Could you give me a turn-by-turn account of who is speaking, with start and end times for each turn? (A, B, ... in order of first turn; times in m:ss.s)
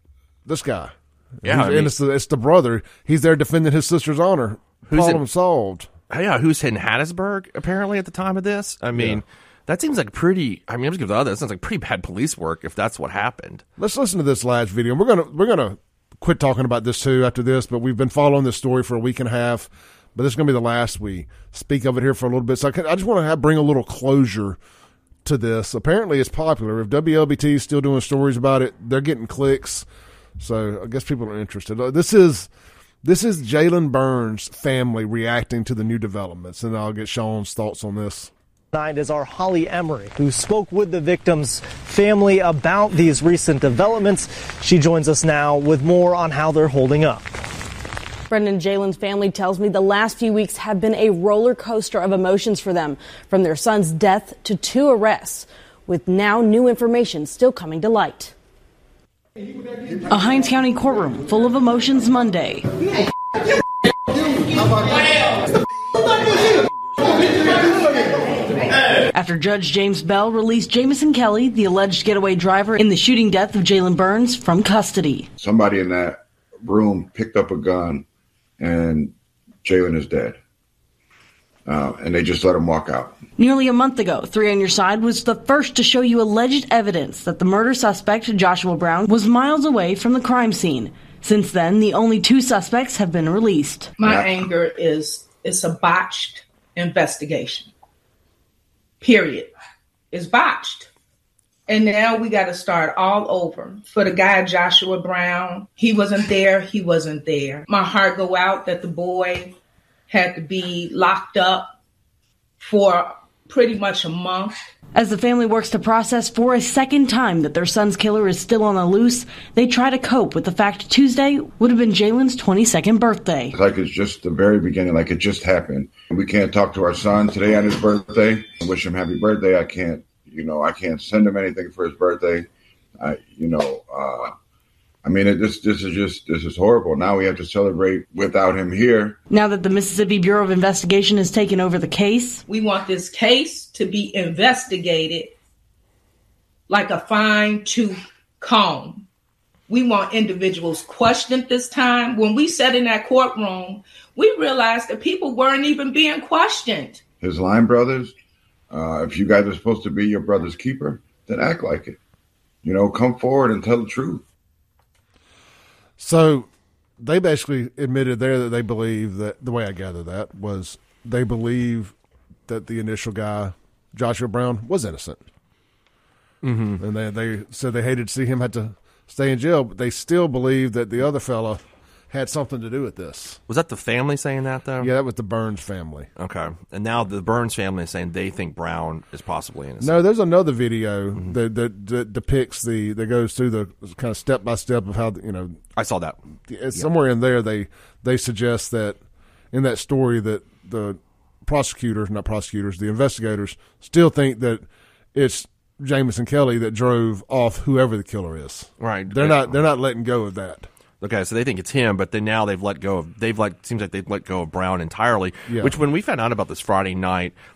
0:00.5-0:05.9 A
0:01.4-0:01.9 B
0:04.9-0:05.2 B
0:06.1-0:13.6 B
0:09.0-0:09.2 A
0:13.8-0:24.6 A
0:25.2-0:29.8 A
0:30.4-0:32.5 A
0:33.0-0:38.3 A
0:38.7-0:47.3 C
0:48.3-0:58.3 D
1:00.1-1:02.7 E
1:09.1-1:15.3 E
1:15.4-1:18.0 F
1:18.6-1:20.4 F
1:21.7-1:23.2 F
1:23.4-1:33.9 E
1:34.0-1:37.7 G
1:39.0-1:39.5 G
1:40.1-1:40.9 G
1:41.7-1:49.6 G
1:50.1-1:51.8 G
1:52.6-1:54.6 G
1:55.0-2:03.5 E
2:03.5-2:12.5 F
2:13.0-2:14.3 F
2:15.0-2:19.2 F
2:19.3-2:22.4 E
2:22.5-2:25.3 G
2:26.7-2:29.1 G
2:29.7-2:37.0 G
2:37.2-2:38.1 F
2:38.7-2:42.0 F
2:42.6-2:44.2 F
2:46.0-2:51.9 A
2:52.5-2:55.2 A
2:56.4-2:56.8 B
2:56.8-3:03.4 A
3:03.5-3:04.9 B
3:04.8-3:06.1 A
3:06.2-3:10.0 B
3:09.8-3:15.6 A
3:15.8-3:16.2 B
3:16.5-3:19.0 A
3:19.5-3:30.7 A
3:28.8-3:29.6 B
3:31.0-3:37.4 B
3:35.5-3:35.7 A